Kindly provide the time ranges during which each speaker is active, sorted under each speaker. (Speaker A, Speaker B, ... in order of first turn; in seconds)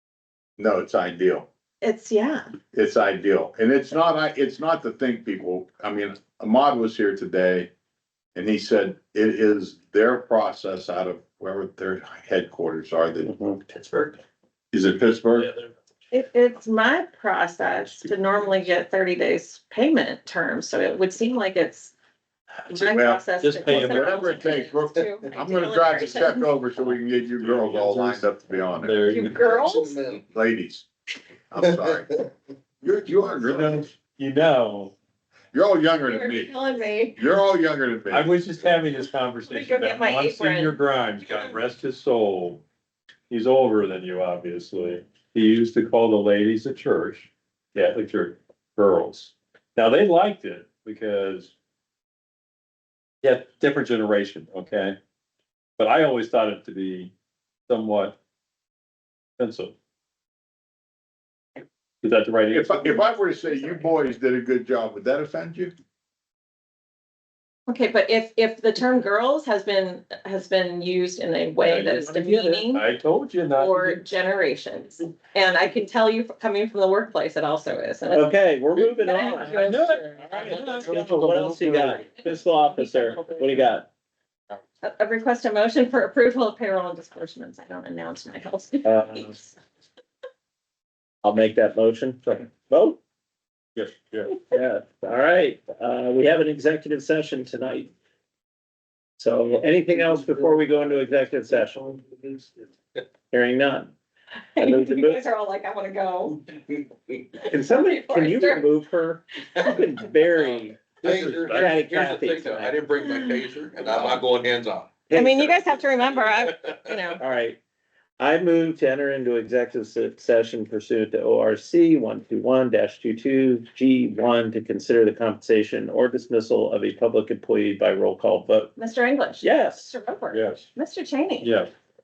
Speaker A: 0.6-1.5, 2.7-7.7, 8.3-13.8, 14.7-15.5, 22.7-29.1, 30.2-30.9, 31.5-32.3, 32.8-33.9, 35.5-36.5, 37.2-38.4, 62.5-65.7
Speaker B: 1.8-2.5, 16.1-21.9, 22.7-26.4, 29.1-30.0, 36.1-37.2, 39.5-40.8, 67.7-72.9, 73.5-80.6, 81.8-83.6, 84.8-89.5, 104.5-108.7, 115.1-117.2, 128.8-131.5
Speaker C: 13.2-13.6, 78.1-83.9, 88.8-89.3, 91.2-93.0, 94.5-97.9, 99.2-102.4, 103.3-103.9, 104.6-105.2, 107.5-112.7, 115.1-115.5, 117.2-117.6, 118.2-128.7, 129.4-129.9
Speaker D: 23.4-24.3, 27.4-29.5, 34.1-34.9, 38.1-42.6, 43.3-51.5, 53.2-55.0, 55.8-57.1, 57.7-58.2, 59.4-59.7, 62.0-63.0, 71.7-74.0, 79.4-81.7, 93.8-94.3, 111.0-111.7, 130.3-130.7, 131.4-131.7
Speaker E: 29.4-30.2, 111.0-114.9